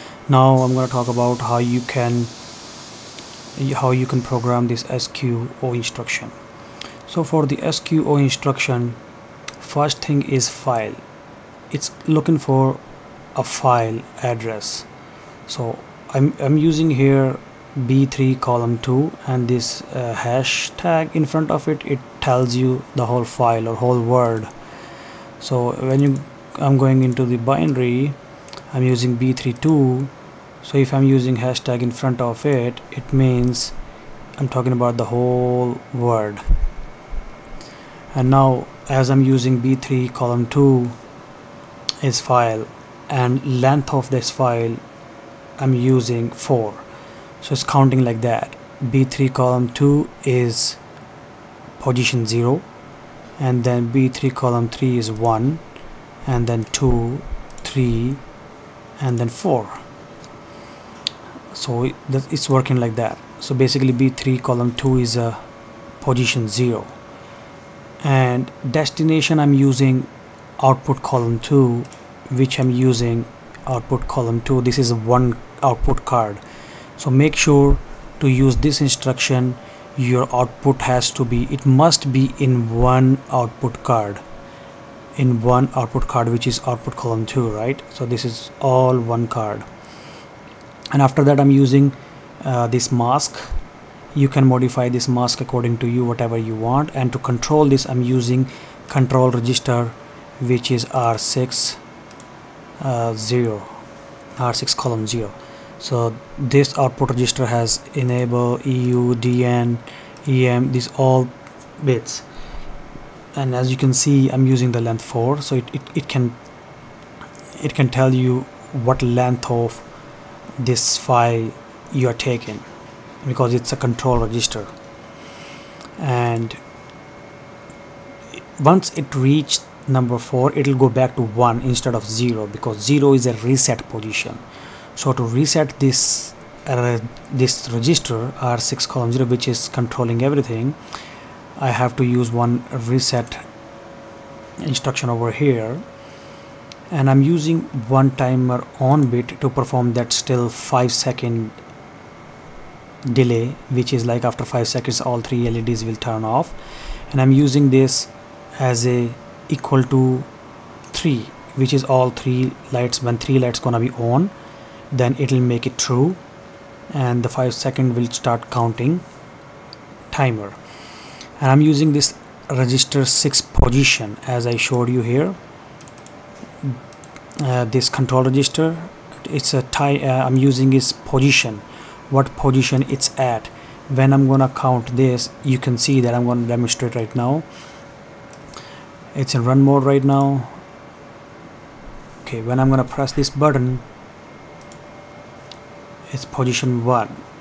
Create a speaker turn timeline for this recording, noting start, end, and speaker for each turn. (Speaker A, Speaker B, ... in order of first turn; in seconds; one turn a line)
Speaker A: 0.3-2.3
Speaker A: 3.6-6.3
Speaker A: 7.1-9.0
Speaker A: 9.6-11.0
Speaker A: 11.7-12.8
Speaker A: 13.3-14.9
Speaker A: 15.5-24.5
Speaker A: 25.4-28.2
Speaker A: 28.7-30.1
Speaker A: 30.6-33.8
Speaker A: 34.4-36.4
Speaker A: 38.1-41.0
Speaker A: 42.0-44.8
Speaker A: 45.6-46.9
Speaker A: 47.4-50.8
Speaker A: 51.8-52.7
Speaker A: 53.4-55.6
Speaker A: 56.2-58.2
Speaker A: 59.0-59.8
Speaker A: 61.5-65.4
Speaker A: 66.0-67.0
Speaker A: 68.0-76.4
Speaker A: 77.0-84.2
Speaker A: 85.2-89.7
Speaker A: 90.9-93.6
Speaker A: 94.1-101.8
Speaker A: 102.8-103.7
Speaker A: 104.4-112.2
Speaker A: 113.3-116.4
Speaker A: 117.6-119.8
Speaker A: 120.6-122.7
Speaker A: 123.2-124.7
Speaker A: 126.0-126.6
Speaker A: 128.6-134.4
Speaker A: 135.0-140.8
Speaker A: 141.6-143.4
Speaker A: 144.6-145.8
Speaker A: 146.9-151.6
Speaker A: 153.1-156.6
Speaker A: 157.1-160.3
Speaker A: 160.9-164.3
Speaker A: 164.9-166.2
Speaker A: 166.9-169.0
Speaker A: 170.1-170.6
Speaker A: 171.4-175.4
Speaker A: 177.4-187.5
Speaker A: 189.1-190.6
Speaker A: 192.2-193.8
Speaker A: 196.1-197.2